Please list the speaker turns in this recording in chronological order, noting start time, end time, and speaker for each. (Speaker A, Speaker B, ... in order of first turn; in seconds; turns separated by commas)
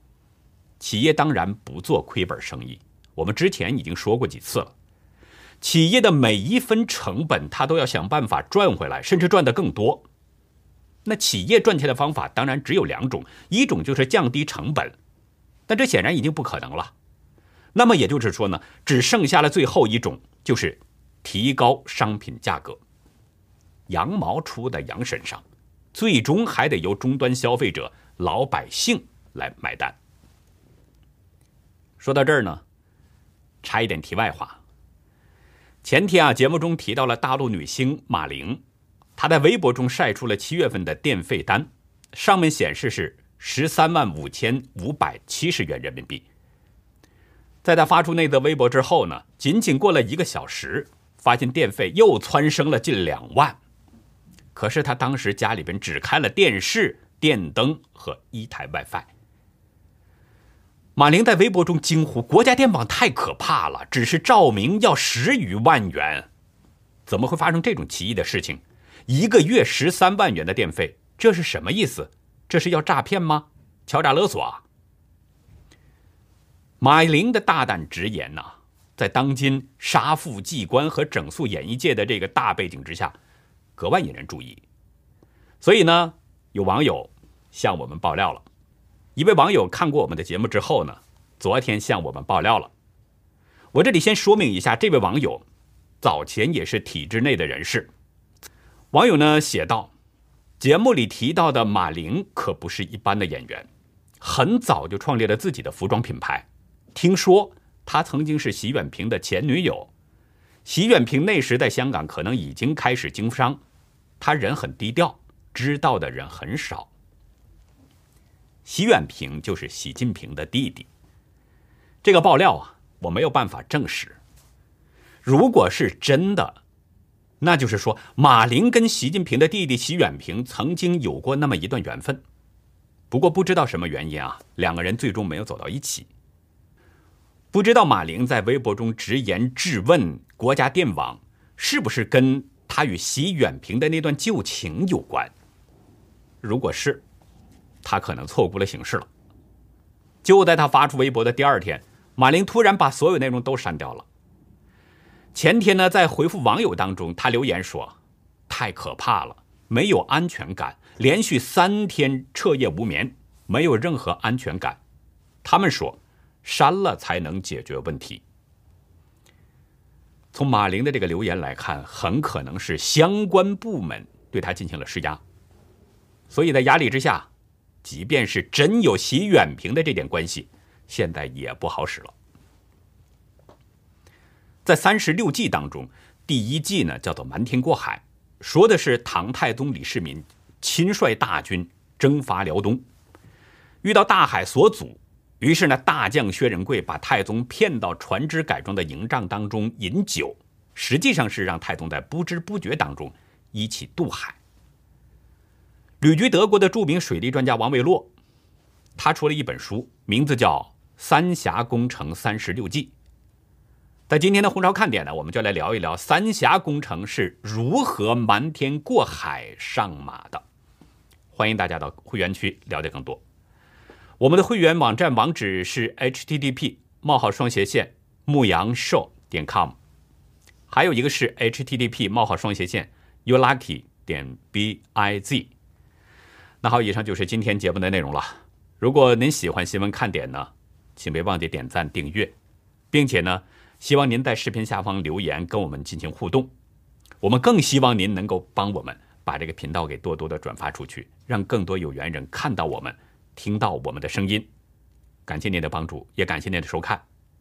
Speaker A: 0.8-4.7, Speaker A: 5.6-10.0, Speaker A: 11.0-15.0, Speaker A: 15.7-16.9, Speaker A: 17.7-22.8, Speaker A: 23.9-30.0, Speaker A: 32.0-32.6, Speaker A: 33.6-34.6, Speaker A: 35.8-38.6, Speaker A: 39.2-46.2, Speaker A: 47.6-53.6, Speaker A: 54.5-59.1, Speaker A: 61.0-66.3, Speaker A: 67.1-74.6, Speaker A: 76.8-83.2, Speaker A: 83.8-84.6, Speaker A: 85.6-88.4, Speaker A: 89.2-92.7, Speaker A: 93.7-95.4, Speaker A: 96.0-97.9, Speaker A: 98.9-99.9, Speaker A: 100.6-103.7, Speaker A: 104.2-109.9, Speaker A: 110.6-113.6, Speaker A: 114.2-116.9, Speaker A: 118.7-120.9, Speaker A: 122.0-124.2, Speaker A: 125.2-126.6, Speaker A: 127.4-132.2, Speaker A: 133.1-136.1, Speaker A: 137.5-145.3, Speaker A: 146.4-147.0, Speaker A: 147.8-149.1, Speaker A: 150.2-154.1, Speaker A: 155.3-157.9, Speaker A: 158.5-164.8, Speaker A: 165.4-168.2, Speaker A: 170.3-175.2, Speaker A: 176.3-177.3, Speaker A: 177.8-182.1, Speaker A: 184.6-192.8, Speaker A: 193.8-204.4, Speaker A: 206.0-208.1, Speaker A: 209.0-212.9, Speaker A: 214.1-220.4, Speaker A: 221.3-223.2, Speaker A: 224.2-229.8, Speaker A: 230.7-235.5, Speaker A: 236.6-242.3, Speaker A: 242.9-246.5, Speaker A: 247.2-254.5, Speaker A: 255.3-257.0